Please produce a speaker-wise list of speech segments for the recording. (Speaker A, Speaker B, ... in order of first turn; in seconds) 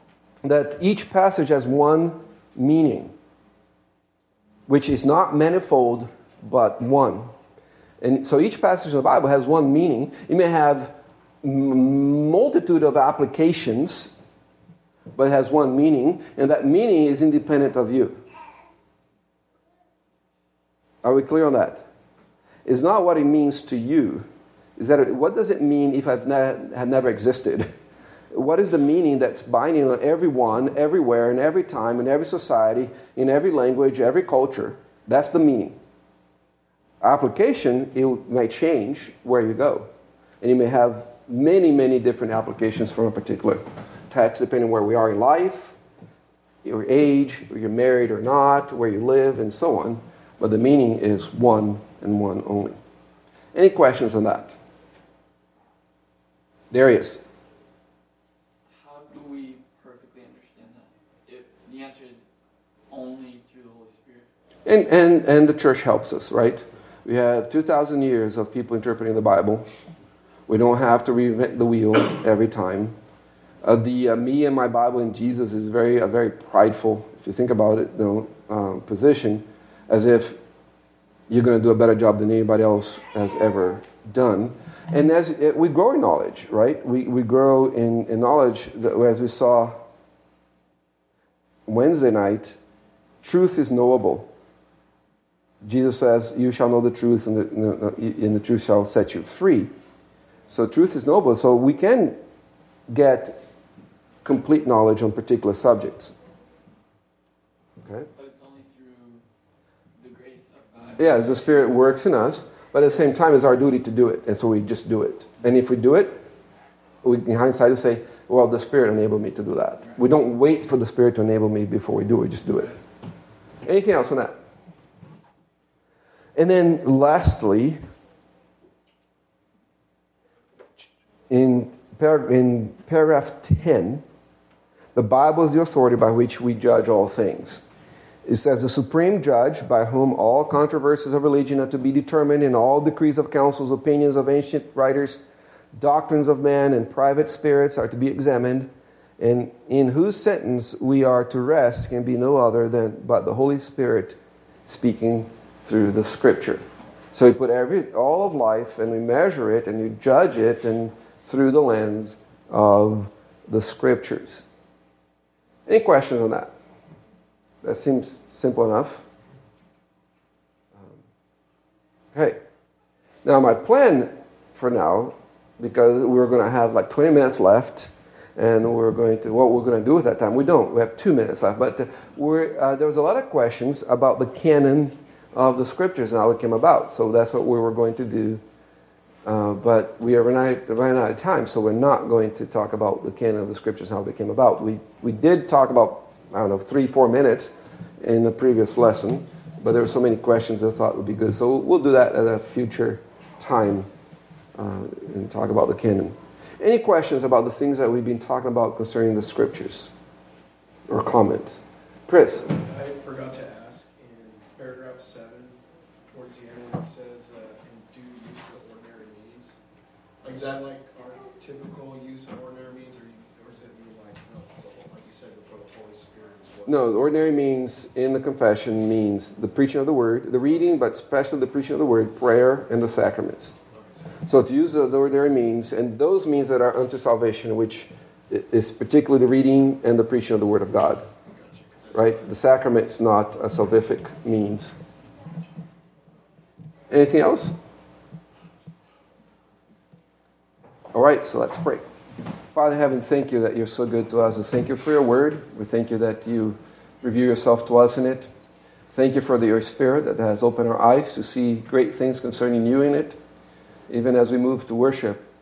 Speaker A: 0.4-3.1, 4.7-7.3, 8.0-14.1, 15.2-18.2, 21.0-21.8, 22.6-24.2, 24.8-27.7, 28.3-35.8, 37.0-39.9, 40.4-45.8, 46.6-52.8, 53.5-54.5, 56.7-57.2, 64.7-69.7, 70.5-72.9, 73.6-80.4, 81.3-89.8, 91.7-92.6, 93.2-94.3, 95.6-99.7, 100.5-102.2, 102.9-103.4, 104.2-106.1, 111.0-116.2, 117.0-122.8, 123.6-124.3, 126.3-127.8, 130.8-134.0, 134.9-137.6, 138.2-145.2, 145.7-156.6, 157.1-164.4, 165.7-166.5, 167.6-169.0, 172.1-172.4, 173.2-188.4, 189.2-203.9, 204.6-209.9, 210.9-212.5, 226.7-233.5, 234.2-241.0, 241.9-244.7, 246.9-247.5, 250.9-251.8, 252.5-258.3, 258.9-263.2, 263.9-265.3
Speaker B: 58.7-62.2, 62.9-64.3, 108.1-109.2, 109.9-111.7
Speaker C: 212.4-219.6, 220.2-226.9, 233.7-234.2, 241.2-242.2